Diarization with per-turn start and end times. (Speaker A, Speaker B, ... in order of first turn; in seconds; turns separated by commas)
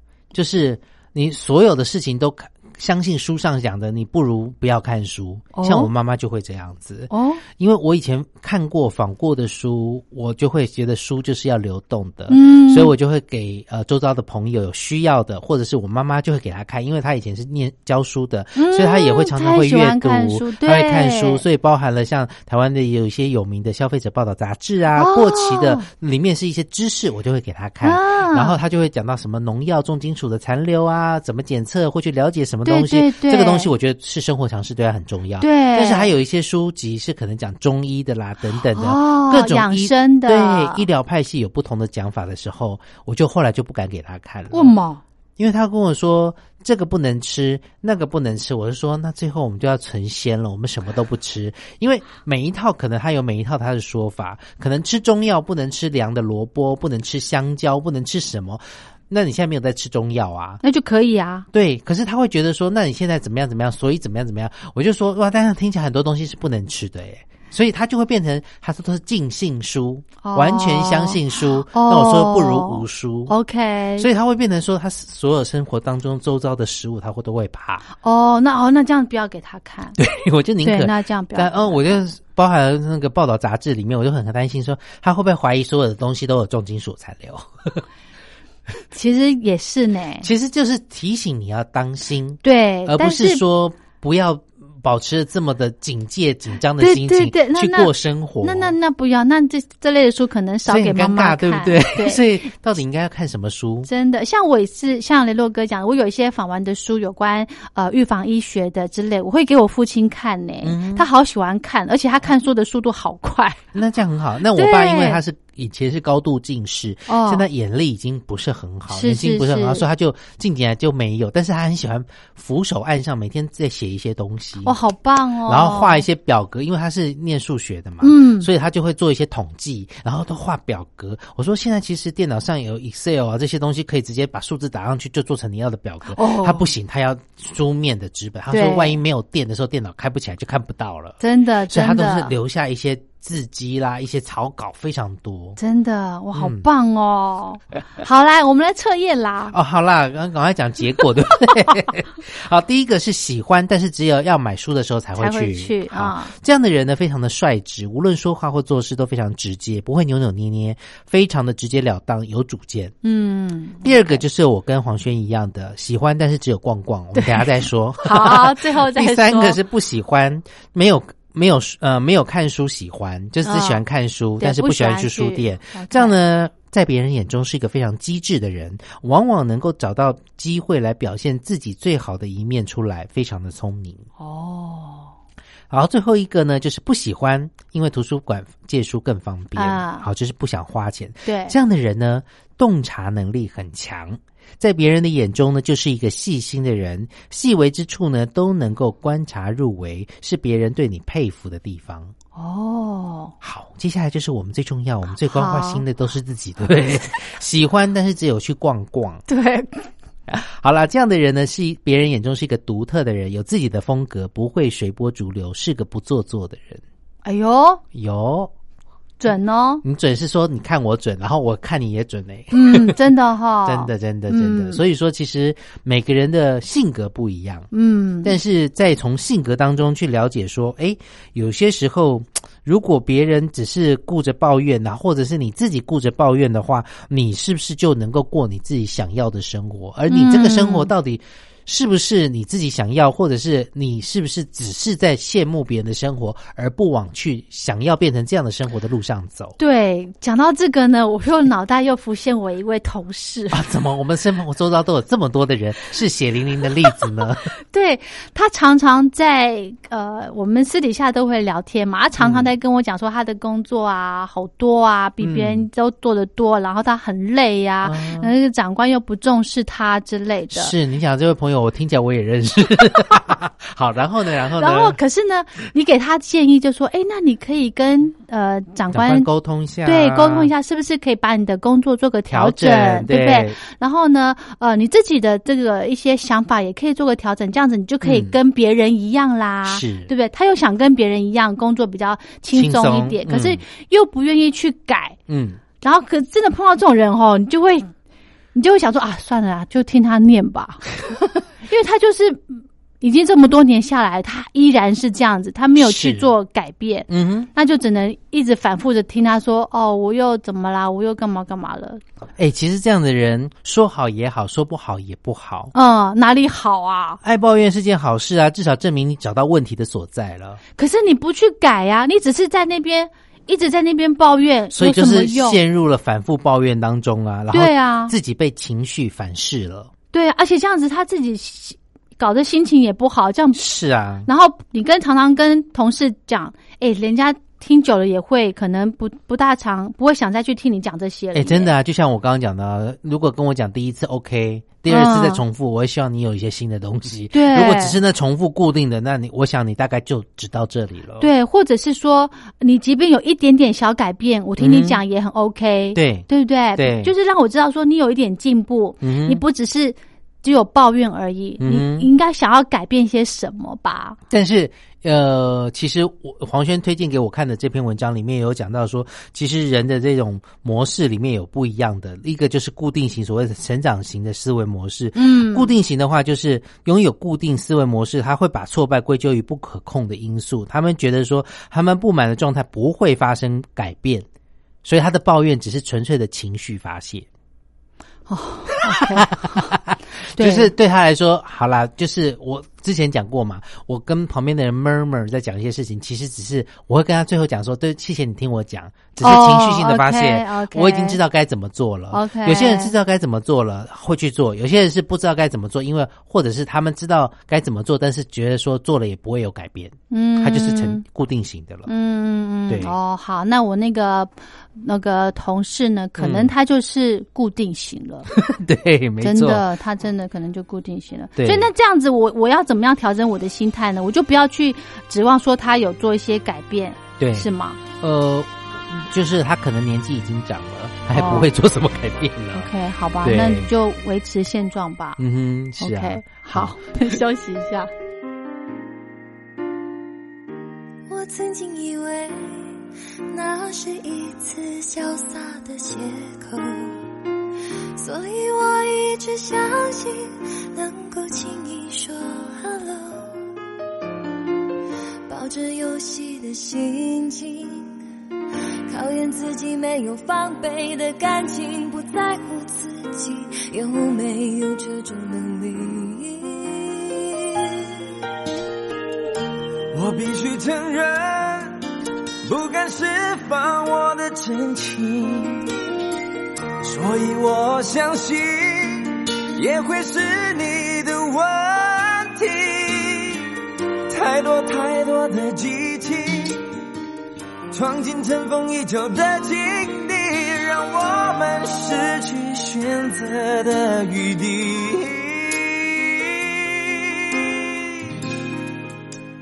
Speaker A: 0.3-44.8, Speaker B: 5.5-5.9, Speaker B: 7.1-7.4, Speaker B: 12.3-12.9, Speaker B: 18.6-21.4, Speaker B: 24.9-25.9, Speaker B: 27.8-28.6, Speaker B: 32.6-33.7, Speaker B: 35.4-36.1, Speaker B: 38.7-40.9, Speaker B: 44.5-45.0, Speaker A: 45.4-60.6, Speaker B: 60.6-61.5, Speaker A: 61.5-73.3, Speaker B: 70.2-74.1, Speaker A: 74.0-77.8, Speaker B: 78.0-80.0, Speaker A: 80.0-87.8, Speaker B: 80.6-82.0, Speaker B: 88.9-90.3, Speaker A: 90.2-98.7, Speaker B: 92.4-93.4, Speaker B: 96.8-102.2, Speaker A: 100.7-103.9, Speaker B: 103.8-113.6, Speaker A: 110.6-111.1, Speaker A: 113.7-124.8, Speaker B: 114.5-115.2, Speaker B: 117.1-117.4, Speaker B: 118.9-119.8, Speaker B: 124.6-126.0, Speaker A: 125.5-145.6, Speaker B: 128.0-128.5, Speaker B: 136.1-136.7, Speaker B: 138.5-139.0, Speaker B: 141.2-142.3, Speaker B: 145.6-149.6, Speaker A: 146.3-146.6, Speaker A: 149.5-162.9, Speaker B: 155.2-156.3, Speaker B: 163.0-164.2, Speaker A: 163.8-184.1, Speaker B: 167.1-169.6, Speaker B: 173.4-173.8, Speaker B: 174.4-176.2, Speaker B: 184.2-185.1, Speaker A: 185.7-202.1, Speaker B: 189.5-190.1, Speaker B: 191.2-191.5, Speaker B: 202.3-203.3, Speaker A: 203.4-209.2, Speaker B: 205.2-205.8, Speaker B: 209.3-209.9, Speaker A: 210.3-216.8, Speaker B: 217.2-217.8, Speaker A: 217.9-218.5, Speaker B: 219.2-219.8, Speaker A: 219.8-223.0, Speaker B: 222.5-224.8, Speaker A: 223.6-227.7, Speaker B: 227.7-228.4, Speaker A: 228.2-249.6, Speaker B: 240.1-240.9, Speaker B: 249.6-253.6, Speaker A: 253.5-257.5, Speaker B: 257.7-270.7, Speaker A: 262.2-262.5, Speaker A: 265.2-265.7, Speaker A: 267.8-268.3, Speaker A: 270.5-275.0, Speaker B: 274.6-279.3, Speaker A: 278.9-280.5, Speaker B: 279.8-295.2, Speaker A: 282.3-283.6, Speaker A: 288.0-288.3, Speaker A: 289.6-290.1, Speaker A: 292.5-293.6, Speaker A: 295.3-295.6, Speaker B: 295.8-297.9, Speaker B: 298.5-300.9, Speaker B: 301.6-312.0, Speaker A: 305.8-306.3, Speaker A: 307.1-307.5, Speaker A: 312.4-315.7, Speaker B: 315.7-317.2, Speaker A: 317.2-320.6, Speaker B: 320.8-325.6, Speaker A: 324.7-329.9, Speaker B: 327.5-328.1, Speaker B: 330.1-333.6, Speaker A: 333.5-334.3, Speaker B: 334.2-341.7, Speaker A: 341.3-351.3, Speaker B: 344.9-345.4, Speaker B: 347.3-348.0, Speaker B: 351.2-364.2, Speaker A: 354.6-355.0, Speaker A: 355.9-357.1, Speaker A: 359.0-359.4, Speaker A: 361.6-362.1, Speaker A: 364.3-384.2, Speaker B: 375.1-375.7, Speaker A: 384.8-387.3, Speaker B: 388.3-389.7, Speaker A: 388.9-411.9, Speaker B: 390.3-390.7, Speaker B: 399.2-401.2, Speaker B: 402.1-402.9, Speaker B: 410.1-411.0, Speaker B: 411.9-418.3, Speaker A: 412.7-412.9, Speaker A: 416.2-416.5, Speaker A: 418.3-419.6, Speaker B: 419.2-427.8, Speaker A: 421.4-421.7, Speaker A: 427.2-432.7, Speaker B: 431.1-431.5, Speaker B: 432.5-435.2, Speaker A: 433.2-433.7, Speaker A: 435.2-436.8, Speaker B: 435.8-437.9, Speaker C: 441.1-442.8, Speaker C: 443.3-447.0, Speaker C: 447.9-453.4, Speaker C: 455.3-458.0, Speaker C: 458.9-467.9, Speaker D: 469.9-471.8, Speaker D: 472.4-475.7, Speaker D: 476.8-483.5, Speaker D: 484.1-486.7, Speaker D: 487.7-497.4